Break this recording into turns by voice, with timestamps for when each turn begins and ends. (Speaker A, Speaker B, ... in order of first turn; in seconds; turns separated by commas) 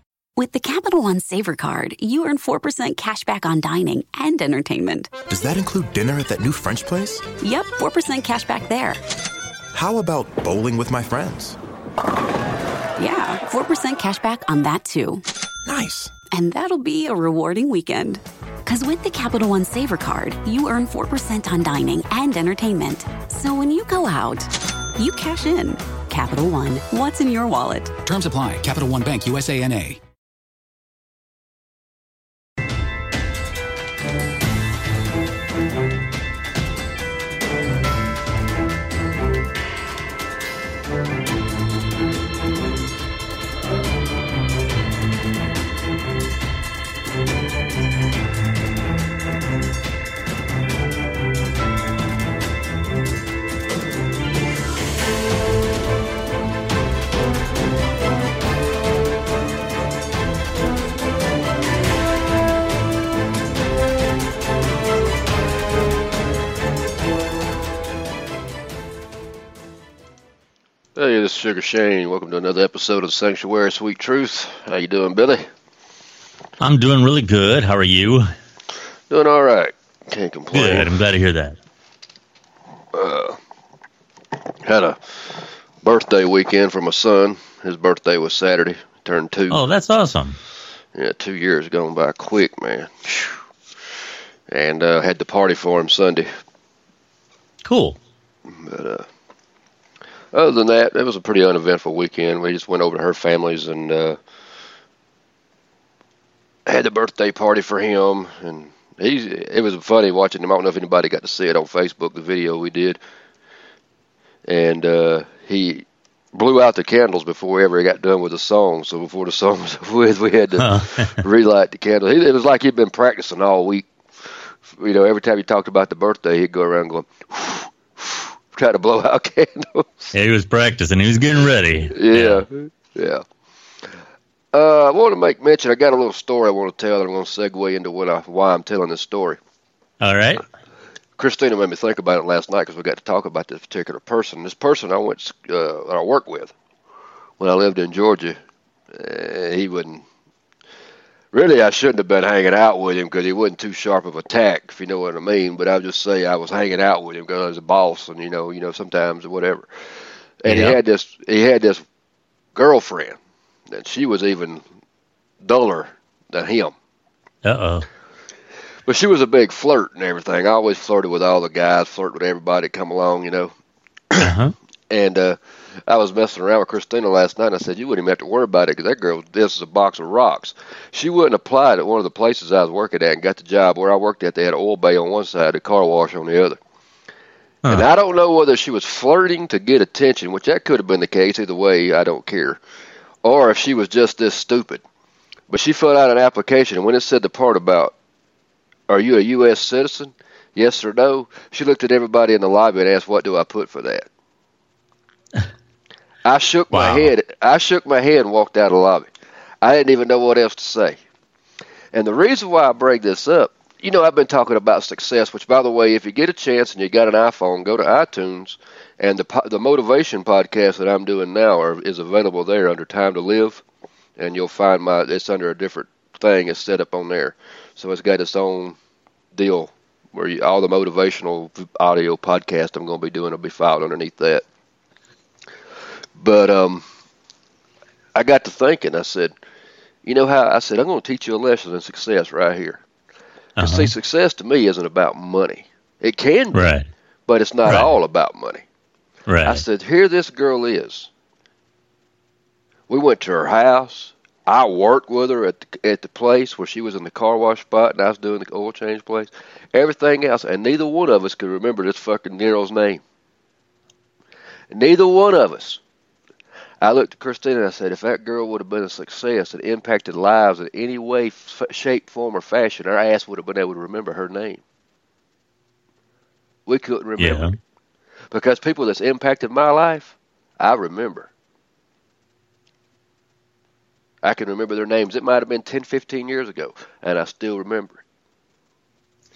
Speaker A: 0.4-5.1, Speaker B: 5.3-7.2, Speaker A: 7.4-9.0, Speaker B: 9.7-11.6, Speaker A: 13.0-15.2, Speaker B: 15.7-16.1, Speaker A: 16.3-27.9, Speaker C: 28.0-30.0, Speaker D: 71.0-75.5, Speaker E: 76.6-78.3, Speaker D: 79.1-80.9, Speaker E: 80.5-81.6, Speaker D: 82.9-83.4, Speaker D: 84.6-85.0, Speaker D: 85.8-89.6, Speaker E: 89.5-90.4, Speaker D: 90.9-93.4, Speaker D: 94.5-96.3, Speaker E: 97.6-98.0, Speaker D: 98.5-99.0, Speaker D: 100.3-104.2, Speaker D: 106.7-113.0, Speaker D: 114.5-130.1, Speaker E: 120.6-121.2, Speaker E: 130.1-132.4, Speaker D: 131.9-133.2, Speaker D: 134.5-139.4, Speaker E: 140.0-140.4, Speaker D: 141.2-146.5, Speaker D: 147.4-148.4, Speaker D: 148.9-150.0, Speaker D: 151.3-159.7, Speaker D: 160.4-161.8, Speaker E: 160.4-160.8, Speaker D: 162.5-163.2, Speaker D: 163.7-164.6, Speaker D: 165.4-166.7, Speaker E: 167.4-167.9, Speaker D: 168.9-173.5, Speaker E: 174.2-174.5, Speaker D: 174.9-186.6, Speaker D: 187.7-192.6, Speaker D: 193.2-194.8, Speaker D: 195.5-197.9, Speaker D: 198.9-204.1, Speaker D: 206.2-209.1, Speaker E: 206.7-207.1, Speaker D: 209.6-211.0, Speaker D: 211.9-223.6, Speaker D: 224.2-228.8, Speaker D: 229.3-234.4, Speaker D: 236.2-236.8, Speaker D: 238.1-239.3, Speaker D: 240.0-242.8, Speaker D: 243.6-246.6, Speaker E: 243.6-243.9, Speaker E: 246.5-246.8, Speaker D: 247.3-248.6, Speaker E: 247.7-247.9, Speaker E: 249.3-249.6, Speaker D: 249.4-251.1, Speaker D: 252.9-263.0, Speaker D: 264.7-265.8, Speaker D: 266.8-274.6, Speaker D: 276.7-277.6, Speaker E: 277.2-277.5, Speaker D: 278.3-281.3, Speaker D: 284.2-288.0